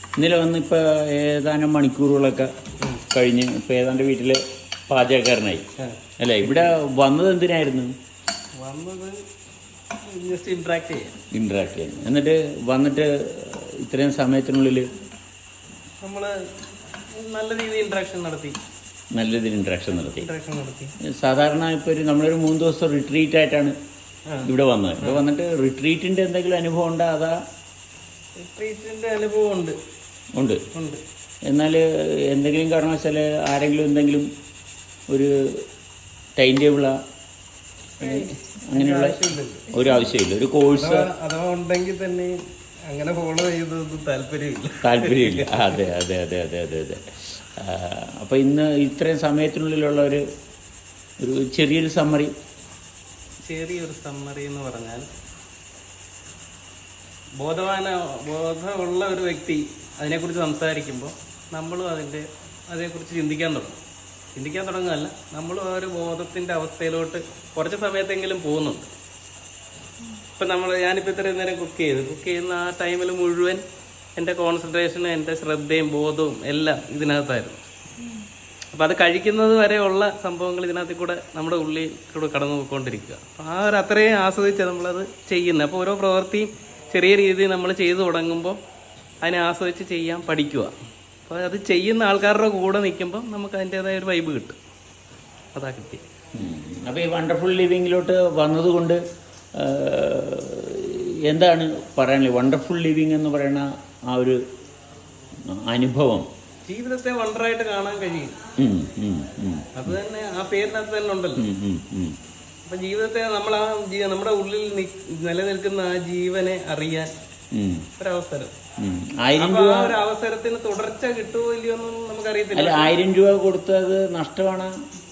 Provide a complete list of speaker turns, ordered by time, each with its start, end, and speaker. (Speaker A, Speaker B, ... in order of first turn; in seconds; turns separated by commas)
Speaker A: 0.2-2.5, Speaker A: 3.1-5.6, Speaker B: 5.8-6.7, Speaker A: 6.2-7.9, Speaker B: 8.6-9.2, Speaker B: 10.1-11.2, Speaker A: 11.3-14.8, Speaker B: 16.0-16.4, Speaker B: 16.9-18.5, Speaker A: 19.1-20.3, Speaker B: 20.0-20.9, Speaker A: 21.2-23.7, Speaker A: 24.4-27.3, Speaker B: 28.4-29.8, Speaker A: 30.4-30.6, Speaker B: 30.7-31.0, Speaker A: 31.5-34.3, Speaker A: 35.1-35.6, Speaker A: 36.4-37.0, Speaker B: 38.0-39.7, Speaker A: 38.0-41.1, Speaker B: 40.7-45.9, Speaker A: 44.8-50.2, Speaker A: 51.2-52.3, Speaker B: 53.4-55.1, Speaker B: 57.4-63.8, Speaker B: 64.3-68.9, Speaker B: 70.2-73.6, Speaker B: 74.2-77.6, Speaker B: 78.7-88.6, Speaker B: 89.2-90.7, Speaker B: 91.2-94.6, Speaker B: 95.5-96.0, Speaker A: 96.3-99.0, Speaker A: 99.5-104.4, Speaker A: 105.5-106.3, Speaker B: 106.7-108.3, Speaker A: 108.6-110.0, Speaker B: 109.7-111.5, Speaker A: 111.4-112.1, Speaker B: 112.7-117.1, Speaker A: 117.5-117.8, Speaker B: 118.0-118.5, Speaker A: 118.8-120.0, Speaker B: 119.4-123.0, Speaker A: 122.5-124.7